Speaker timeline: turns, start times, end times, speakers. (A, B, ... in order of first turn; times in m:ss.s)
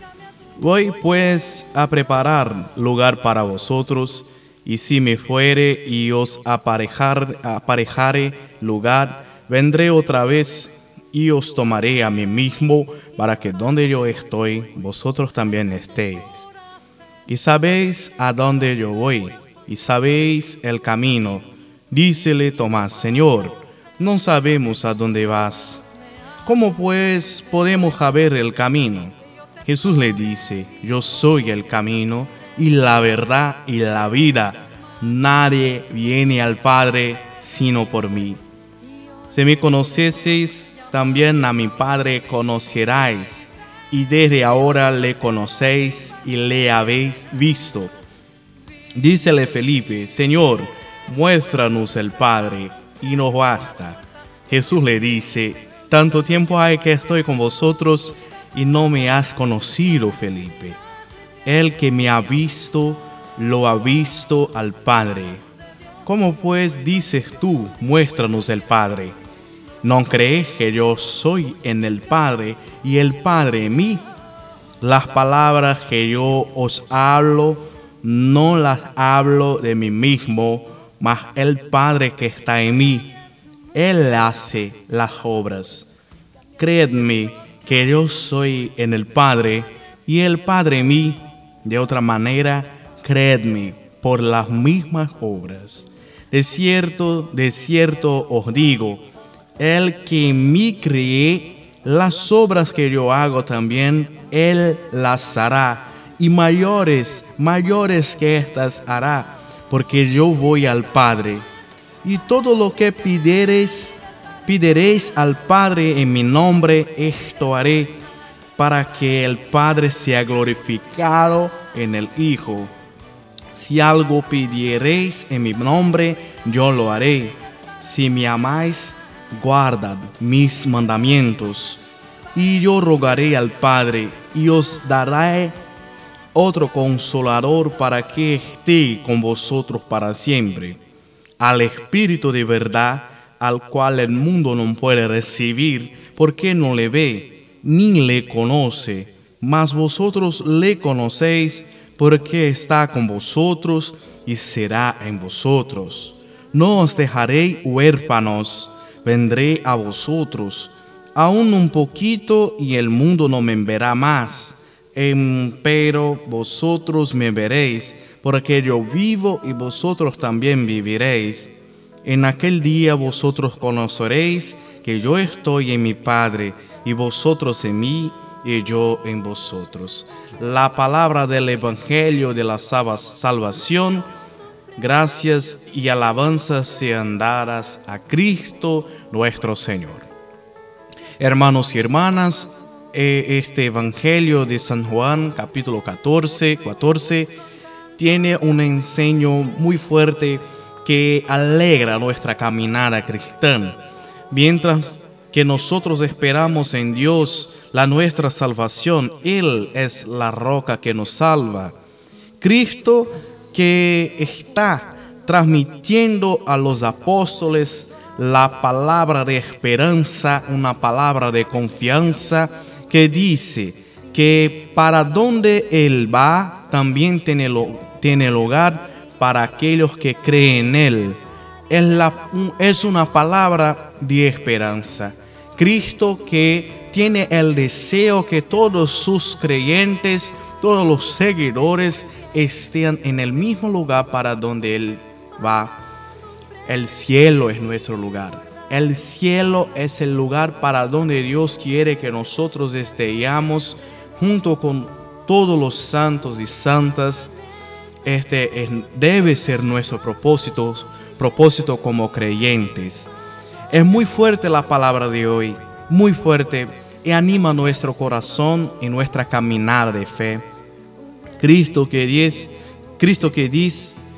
0:00.6-0:16.5 A
0:17.3-0:25.8 A
0:26.4-0:38.4 A
0:39.3-0:47.9 A
0:49.0-1:00.8 A
1:01.4-1:05.4 A
1:06.0-1:09.2 A
1:09.8-1:14.0 A
1:14.8-1:23.1 A
1:23.7-1:25.9 A
1:26.6-1:39.0 A
1:39.6-1:51.4 A
1:52.0-1:58.0 A
1:58.6-2:02.7 A
2:03.5-2:11.8 A
2:12.3-2:15.6 A
2:16.3-2:20.8 A
2:21.4-3:04.1 A
3:04.8-3:10.1 A
3:11.2-3:17.3 A
3:18.0-3:23.8 A
3:24.3-3:31.7 A
3:32.4-4:05.8 A
4:06.6-4:17.3 A
4:18.0-4:23.1 A
4:23.7-4:30.4 A
4:31.4-4:34.0 A